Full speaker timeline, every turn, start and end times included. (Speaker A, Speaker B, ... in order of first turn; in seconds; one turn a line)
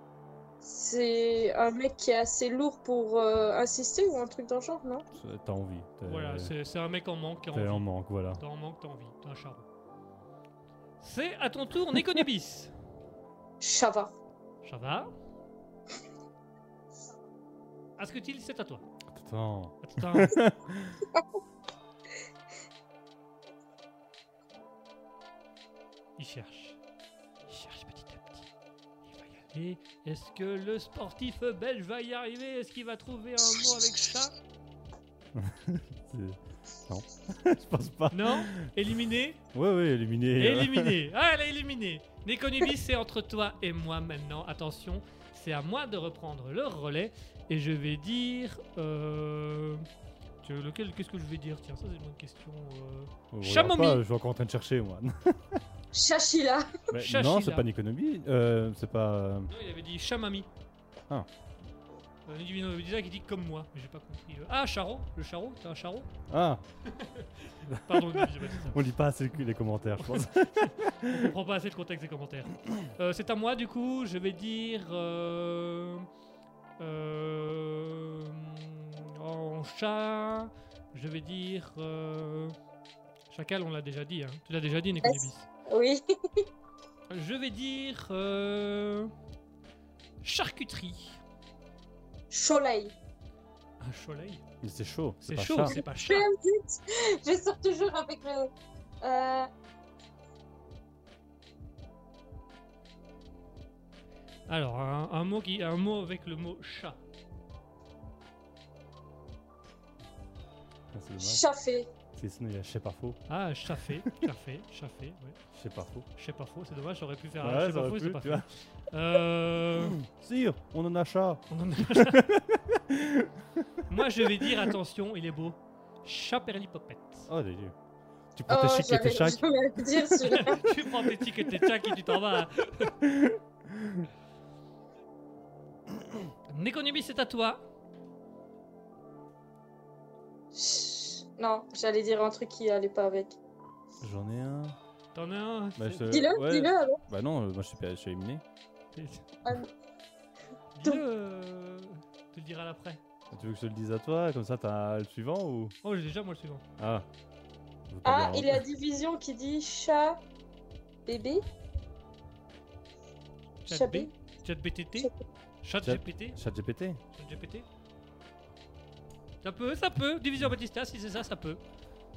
Speaker A: 0.6-5.1
Speaker B: 5.1-6.5
Speaker C: 6.1-9.7
Speaker B: 7.5-8.4
Speaker C: 11.0-12.7
Speaker A: 13.6-14.1
Speaker C: 14.6-15.1
Speaker C: 18.0-18.8
Speaker B: 19.1-21.1
Speaker C: 19.8-20.4
Speaker C: 26.2-26.8
Speaker C: 27.5-28.5
Speaker C: 29.1-34.4
Speaker B: 35.4-38.7
Speaker C: 38.1-39.4
Speaker B: 39.5-41.0
Speaker C: 40.4-49.9
Speaker C: 50.4-54.0
Speaker B: 53.3-55.6
Speaker A: 55.9-56.8
Speaker B: 56.9-59.5
Speaker C: 57.0-57.7
Speaker C: 59.5-60.5
Speaker C: 62.3-66.1
Speaker B: 66.3-66.6
Speaker C: 66.9-68.8
Speaker B: 67.7-71.3
Speaker C: 70.0-76.1
Speaker C: 76.8-82.6
Speaker C: 83.3-85.5
Speaker A: 85.0-86.5
Speaker C: 87.1-89.1
Speaker C: 90.2-91.2
Speaker A: 92.3-92.9
Speaker C: 93.8-94.4
Speaker B: 94.6-95.8
Speaker C: 95.2-96.3
Speaker A: 95.7-98.5
Speaker A: 99.0-99.5
Speaker C: 104.5-107.0
Speaker B: 110.9-111.4
Speaker A: 111.2-111.9
Speaker B: 112.2-113.2
Speaker C: 113.3-115.4
Speaker B: 113.8-114.1
Speaker B: 115.5-116.1
Speaker C: 116.2-120.0
Speaker B: 117.4-118.5
Speaker B: 119.8-123.6
Speaker C: 121.5-122.3
Speaker C: 123.9-127.3
Speaker B: 127.3-127.8
Speaker B: 128.3-129.4
Speaker A: 128.5-130.6
Speaker C: 130.3-132.9
Speaker B: 133.0-134.1
Speaker C: 136.5-137.6
Speaker A: 140.5-143.4
Speaker B: 144.0-144.8
Speaker C: 145.2-146.1
Speaker B: 145.8-148.4
Speaker A: 146.1-147.0
Speaker C: 148.9-149.2
Speaker A: 149.4-149.7
Speaker C: 150.8-153.0
Speaker B: 153.3-155.7
Speaker C: 155.8-156.6
Speaker B: 156.8-157.1
Speaker B: 157.9-158.6
Speaker A: 158.1-160.2
Speaker A: 161.1-161.4
Speaker C: 163.7-165.1
Speaker A: 163.7-164.1
Speaker C: 165.6-166.4
Speaker B: 165.8-167.0
Speaker C: 167.1-167.7
Speaker C: 169.4-171.6